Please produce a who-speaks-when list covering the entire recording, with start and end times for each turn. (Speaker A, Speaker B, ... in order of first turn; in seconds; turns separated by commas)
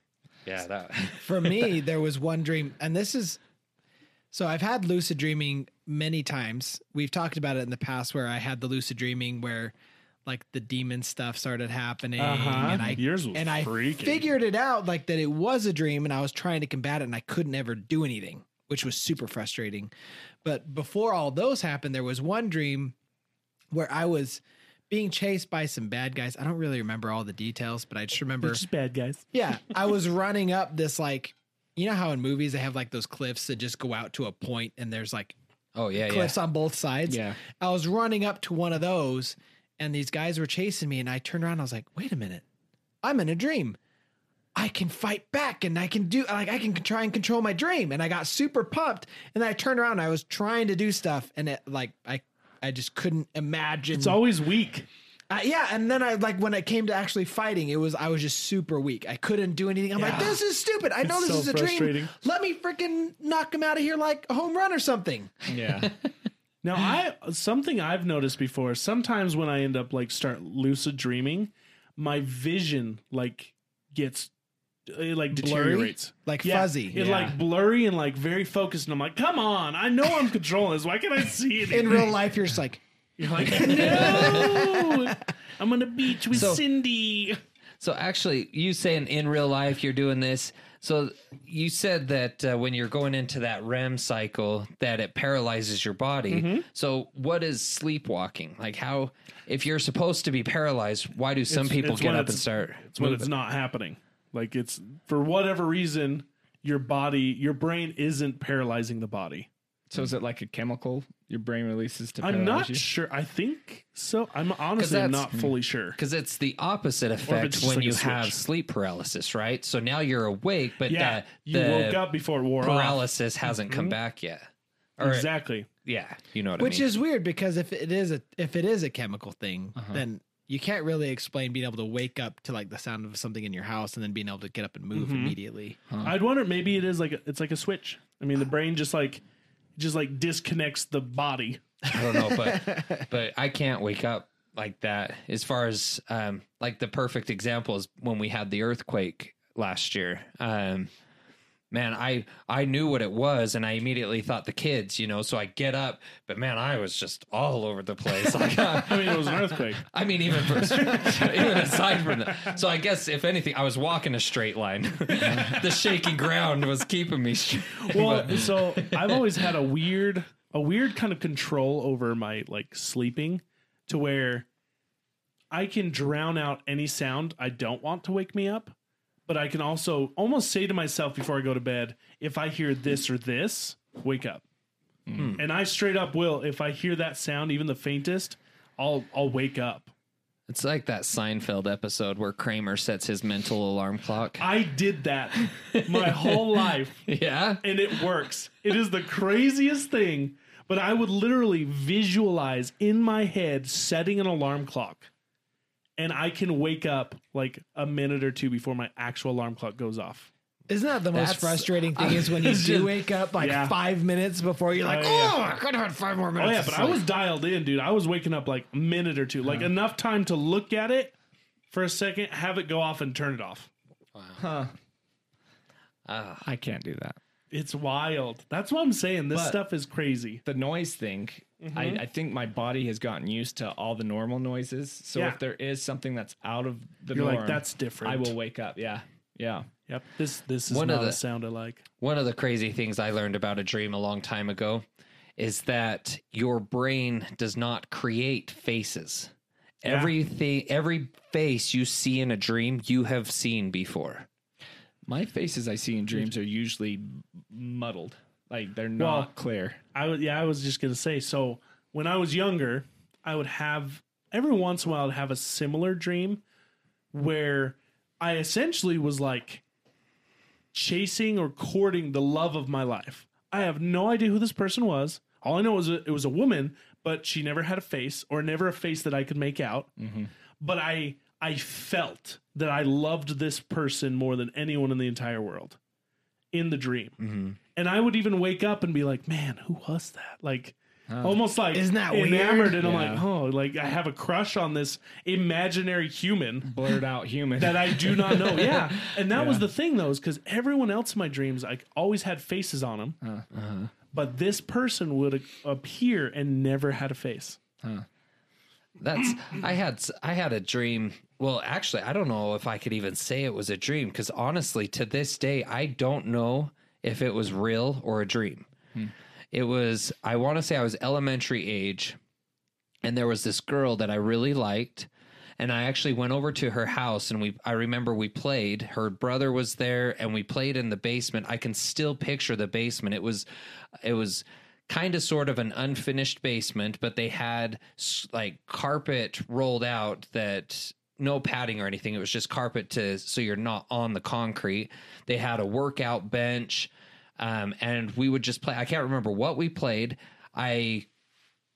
Speaker A: 0.5-1.7, Speaker B: 1.2-3.4, Speaker B: 4.3-9.7, Speaker B: 10.2-19.9, Speaker C: 12.2-14.3, Speaker D: 12.6-13.0, Speaker B: 20.4-22.9, Speaker B: 23.7-28.6, Speaker C: 28.4-29.2, Speaker B: 29.3-35.4, Speaker A: 35.7-36.4, Speaker B: 36.0-42.4, Speaker D: 37.1-37.4, Speaker B: 43.0-43.8, Speaker B: 44.5-54.2, Speaker C: 53.9-54.9, Speaker B: 55.3-65.4, Speaker C: 59.9-60.4, Speaker C: 61.0-62.1, Speaker D: 65.5-65.9, Speaker C: 66.6-74.3, Speaker C: 74.9-82.1, Speaker B: 75.3-77.3, Speaker B: 81.7-82.8, Speaker C: 83.2-87.4, Speaker B: 83.4-85.2, Speaker A: 83.6-84.5, Speaker A: 86.3-86.6, Speaker A: 87.8-103.3, Speaker C: 96.3-96.7, Speaker C: 101.5-109.5, Speaker D: 109.9-112.8, Speaker C: 112.2-116.0, Speaker A: 114.8-115.3, Speaker A: 116.0-122.0, Speaker C: 117.2-118.4, Speaker C: 120.8-123.9, Speaker A: 122.6-125.3, Speaker C: 125.0-125.7, Speaker A: 125.8-126.9, Speaker B: 126.6-135.8, Speaker D: 129.8-130.0, Speaker C: 134.9-135.4, Speaker D: 135.9-136.2, Speaker C: 136.0-139.2, Speaker C: 139.8-141.6, Speaker A: 141.9-150.9, Speaker B: 142.3-143.0, Speaker A: 151.7-169.4, Speaker C: 158.7-159.8, Speaker C: 160.8-161.7, Speaker D: 165.2-165.6, Speaker C: 167.8-174.5, Speaker C: 175.5-178.7, Speaker C: 179.3-184.4, Speaker D: 185.1-185.3, Speaker A: 185.1-185.4, Speaker C: 185.4-189.9, Speaker A: 190.5-194.5, Speaker C: 194.4-197.1, Speaker A: 195.6-196.4, Speaker A: 197.1-197.6, Speaker C: 197.6-205.1, Speaker C: 206.0-210.3, Speaker B: 210.7-217.0, Speaker A: 211.1-213.0, Speaker C: 213.4-213.8, Speaker C: 214.8-215.4, Speaker C: 216.4-221.1, Speaker C: 221.7-223.7, Speaker A: 224.1-224.4, Speaker D: 224.4-224.7, Speaker A: 226.1-226.5, Speaker D: 226.4-227.2, Speaker C: 227.5-230.4, Speaker D: 229.3-229.6, Speaker D: 230.4-239.7, Speaker C: 231.6-232.0, Speaker C: 235.1-235.4, Speaker C: 237.1-238.3, Speaker C: 239.9-241.8, Speaker A: 240.7-241.2, Speaker A: 242.0-244.8, Speaker A: 245.4-254.3, Speaker C: 249.8-250.1, Speaker D: 255.1-259.8, Speaker C: 259.0-259.3, Speaker C: 259.9-266.4, Speaker C: 267.1-269.6, Speaker C: 270.7-279.9, Speaker D: 280.0-280.3, Speaker C: 280.6-285.8, Speaker C: 286.5-287.2, Speaker A: 287.2-287.6, Speaker C: 287.7-296.7, Speaker D: 291.1-291.4, Speaker B: 291.7-292.8, Speaker D: 292.8-293.2, Speaker D: 296.6-299.7, Speaker C: 297.6-303.2, Speaker A: 303.5-303.9, Speaker C: 304.1-307.6, Speaker A: 309.0-318.7, Speaker A: 319.5-322.2, Speaker A: 323.0-325.1, Speaker A: 325.6-333.4, Speaker A: 334.0-351.1